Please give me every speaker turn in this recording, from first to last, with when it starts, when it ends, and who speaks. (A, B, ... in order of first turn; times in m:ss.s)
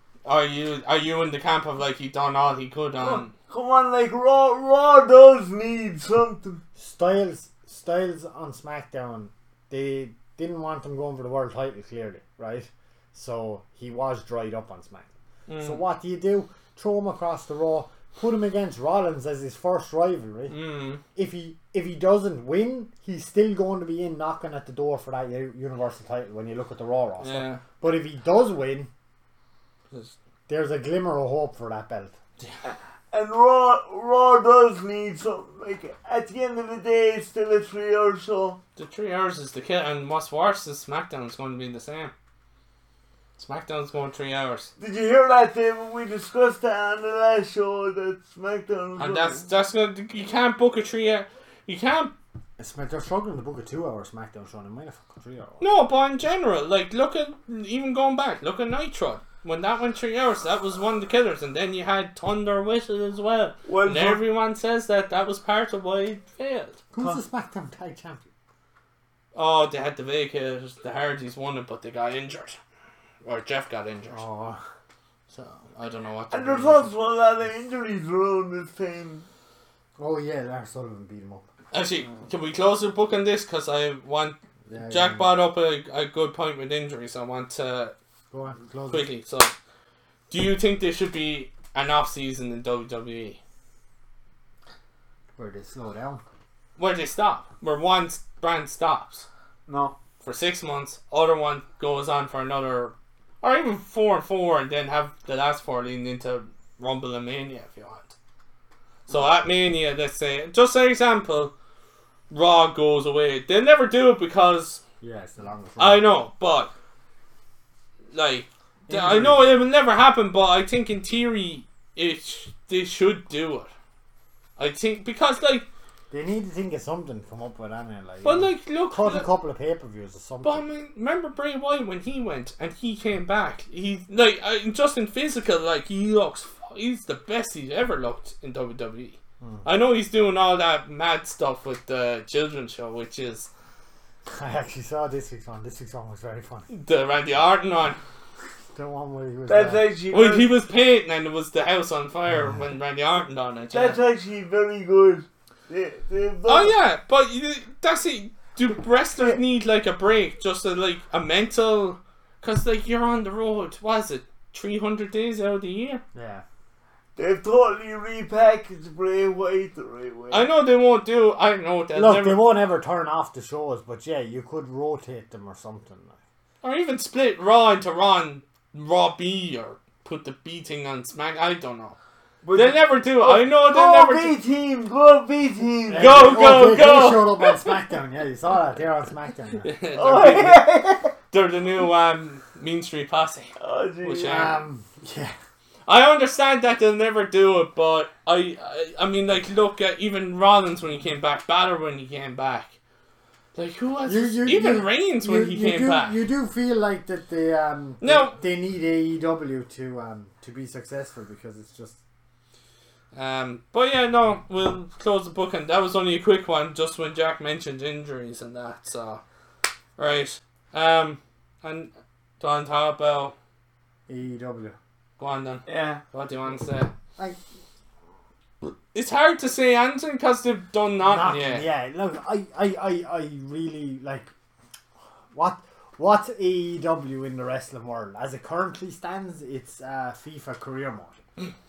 0:00.2-0:03.3 A
0:03.0-0:06.6 B
0:06.8-0:15.1 C
0:15.5-0:15.8 A
0:15.6-0:20.6 C
0:20.5-0:21.0 A
0:21.2-0:28.9 C
0:27.2-0:27.6 A
0:30.5-0:32.2 C
0:32.6-0:38.6 B
0:38.8-0:42.1 A
0:43.4-0:44.7 A
0:44.8-0:49.5 B
0:49.0-0:52.1 A
0:52.6-0:55.6 C
0:55.6-1:06.8 A
1:03.7-1:04.2 B
1:06.9-1:08.2 C
1:09.4-1:12.6 A
1:13.2-1:14.2 A
1:14.1-1:14.6 C
1:15.3-1:16.9 A
1:16.3-1:19.3 B
1:20.0-1:21.5 C
1:21.7-1:27.9 A
1:24.7-1:25.3 C
1:28.3-1:29.1 C
1:28.9-1:29.5 A
1:30.3-1:33.4 A
1:35.4-1:36.2 C
1:36.8-1:39.3 A
1:39.7-1:40.0 B
1:40.2-1:48.2 A
1:49.1-1:51.5 A
1:52.3-1:54.8 A
1:55.0-1:56.1 C
1:55.8-1:56.7 A
1:58.1-2:03.7 A
1:58.9-1:59.5 C
2:04.6-2:05.7 A
2:06.1-2:10.6 C
2:08.2-2:09.3 A
2:10.4-2:23.5 A
2:19.4-2:19.7 C
2:24.3-2:26.7 C
2:26.7-2:28.0 A
2:28.7-2:29.9 C
2:29.5-2:30.5 B
2:30.1-2:34.0 A
2:33.7-2:36.8 B
2:36.5-2:46.0 A
2:46.1-2:46.4 C
2:47.2-2:50.5 B
2:50.3-2:52.4 A
2:51.9-2:56.2 C
2:56.6-3:02.0 A
3:02.4-3:06.6 B
3:02.6-3:04.4 A
3:05.9-3:09.7 C
3:06.0-3:07.6 A
3:09.6-3:10.7 A
3:10.0-3:11.1 B
3:11.3-3:14.6 A
3:13.6-3:14.5 B
3:14.2-3:15.4 C
3:15.9-3:22.8 A
3:23.6-3:26.2 A
3:24.1-3:32.0 C
3:28.0-3:28.3 A
3:33.1-3:39.2 A
3:40.0-3:43.3 A
3:44.1-3:44.8 C
3:45.2-3:46.9 A
3:45.7-3:46.0 B
3:48.9-3:51.7 A
3:51.0-3:54.3 C
3:55.3-4:01.2 C